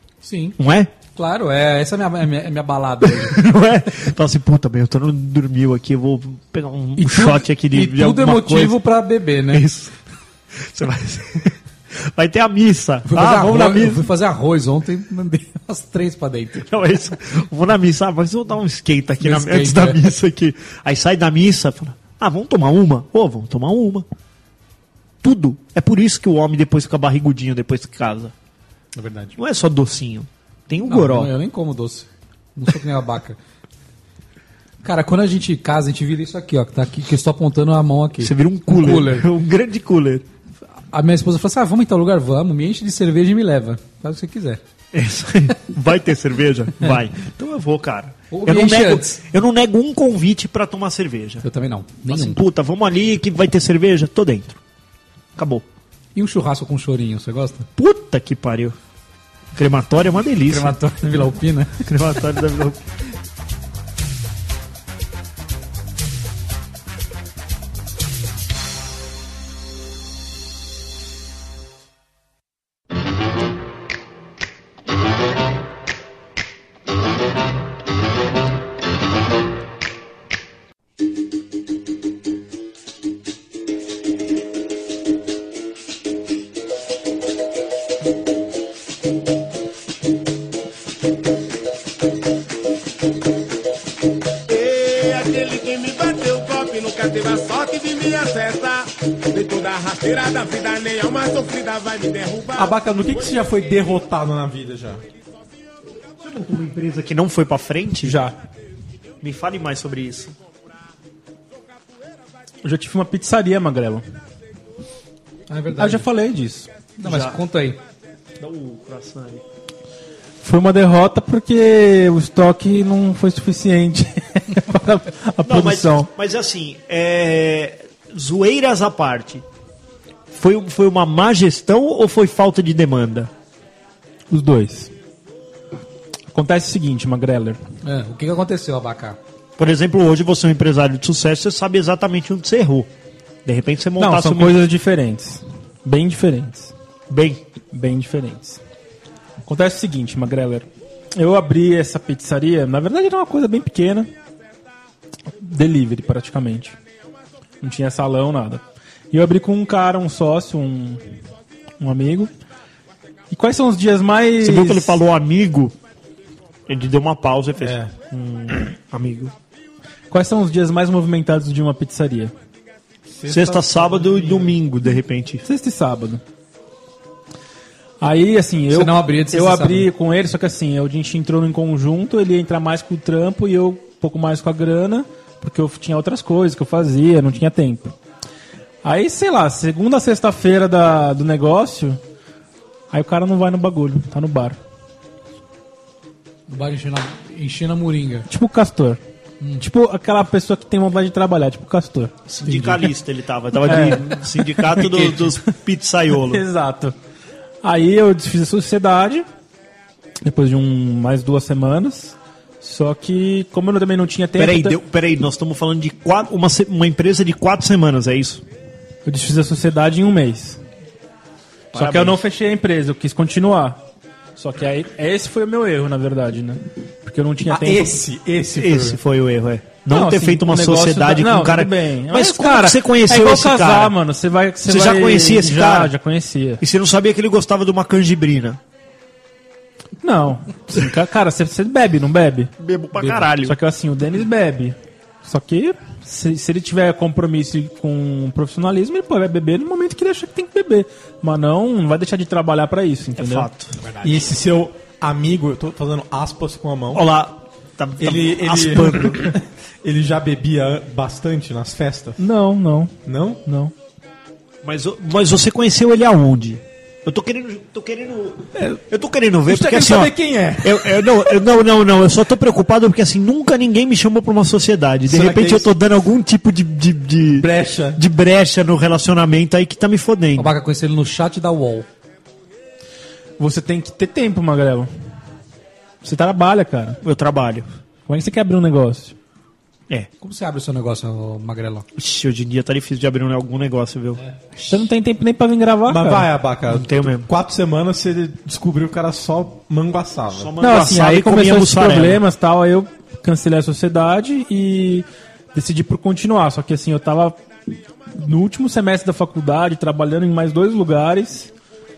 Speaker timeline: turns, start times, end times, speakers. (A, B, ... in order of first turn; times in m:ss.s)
0:00.2-0:00.6 A
0:00.6-0:00.9 B
0:01.2-0:03.4 A
0:03.0-0:08.8 B
0:07.0-0:09.6 A
0:09.5-0:09.9 B
0:10.6-0:14.1 B
0:13.0-0:16.7 A
0:16.6-0:24.0 B
0:19.2-0:20.1 A
0:25.2-0:28.3 B
0:29.0-0:29.4 A
0:29.4-0:31.3 B
0:30.8-0:33.4 A
0:34.8-0:39.3 A
0:38.2-0:40.2 B
0:40.9-0:44.6 A
0:44.9-0:51.4 B
0:48.3-0:49.2 A
0:51.4-0:52.4 A
0:52.0-0:54.6 B
0:55.4-0:55.6 B
0:56.1-0:57.7 A
0:57.8-0:58.8 B
0:59.5-1:00.8 B
1:00.5-1:01.7 A
1:01.8-1:02.8 B
1:34.5-1:42.8 C
1:42.6-1:45.0 D
1:46.2-1:48.2 B
1:48.0-1:48.3 E
1:49.2-1:50.3 B
1:52.6-1:54.0 E
1:55.5-1:56.0 A
1:55.8-1:56.7 E
1:57.0-1:57.8 A
1:57.0-1:57.4 B
1:58.4-1:59.4 B
2:00.4-2:06.1 E
2:05.4-2:09.4 B
2:10.3-2:13.3 B
2:14.3-2:14.9 E
2:16.3-2:17.6 E
2:17.8-2:19.2 A
2:19.6-2:22.9 B
2:23.4-2:24.6 B
2:24.0-2:26.7 E
2:27.1-2:27.4 B
2:27.7-2:28.6 E
2:29.4-2:34.1 E
2:35.4-2:36.8 E
2:37.6-2:41.0 E
2:41.8-2:42.3 E
2:43.3-2:45.0 E
2:44.4-2:45.8 B
2:46.7-2:49.3 B
2:47.6-2:47.9 D
2:50.1-2:52.3 E
2:53.1-2:54.6 D
2:53.3-2:55.4 B
2:55.4-2:56.2 E
2:58.0-3:07.9 E
2:58.7-2:59.9 A
3:08.8-3:12.0 E
3:12.9-3:14.6 E
3:16.5-3:18.3 A
3:18.3-3:19.0 E
3:19.6-3:22.1 E
3:22.3-3:26.4 B
3:22.4-3:22.8 A
3:23.6-3:25.1 E
3:26.3-3:26.9 E
3:27.6-3:29.2 E
3:30.2-3:34.8 E
3:34.4-3:38.4 B
3:39.0-3:40.6 E
3:41.7-3:42.2 B
3:41.7-3:43.8 E
3:44.4-3:48.0 E
3:47.5-3:49.0 D
3:48.5-3:54.0 B
3:49.9-3:56.6 E
3:54.6-3:55.9 B
3:56.6-3:58.6 B
4:00.0-4:02.5 E
4:02.6-4:03.6 B
4:03.4-4:13.5 E
4:13.2-4:13.8 B
4:14.0-4:17.0 D
4:16.9-4:19.3 B
4:18.0-4:22.2 D
4:22.2-4:23.7 E
4:23.0-4:23.4 D
4:24.6-4:40.5 B
4:28.6-4:28.8 D
4:29.5-4:31.2 D
4:35.1-4:35.7 D
4:37.3-4:38.0 D
4:40.4-4:41.9 A
4:43.4-4:44.9 E
4:46.0-4:47.0 E
4:47.0-4:47.7 B
4:48.1-4:49.2 E
4:50.2-4:51.8 A
4:51.9-4:54.2 B
4:54.7-4:56.3 E
4:55.8-5:00.5 D
4:56.7-4:57.3 B
5:00.3-5:02.2 B
5:00.6-5:07.4 E
5:08.2-5:11.5 E